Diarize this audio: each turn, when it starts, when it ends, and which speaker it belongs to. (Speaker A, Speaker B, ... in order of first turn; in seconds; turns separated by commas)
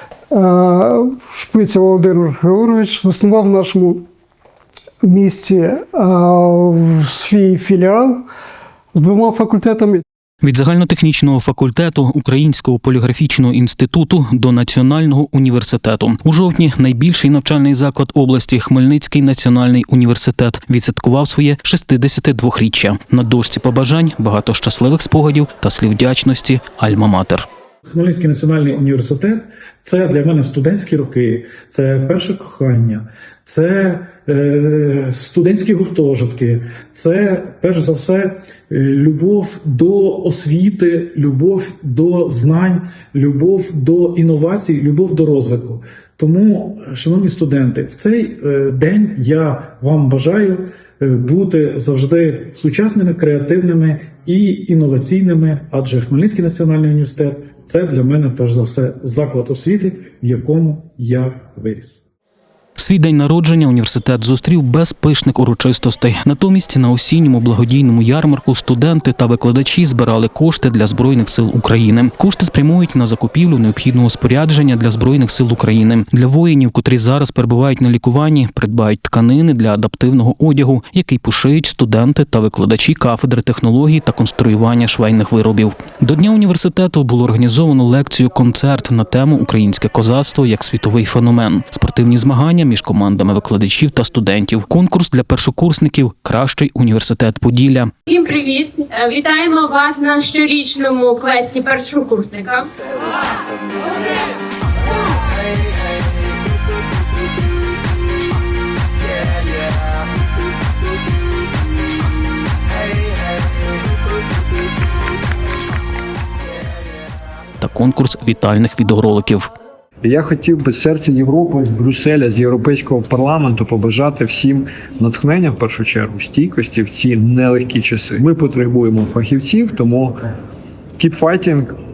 Speaker A: 0.3-4.0, Speaker A: 5.0-8.2, Speaker A: 8.9-10.0, Speaker B: 10.4-27.5, Speaker C: 27.9-62.0, Speaker B: 62.8-97.9, Speaker D: 98.1-102.7, Speaker B: 117.6-119.5, Speaker E: 120.0-130.2, Speaker E: 131.0-131.7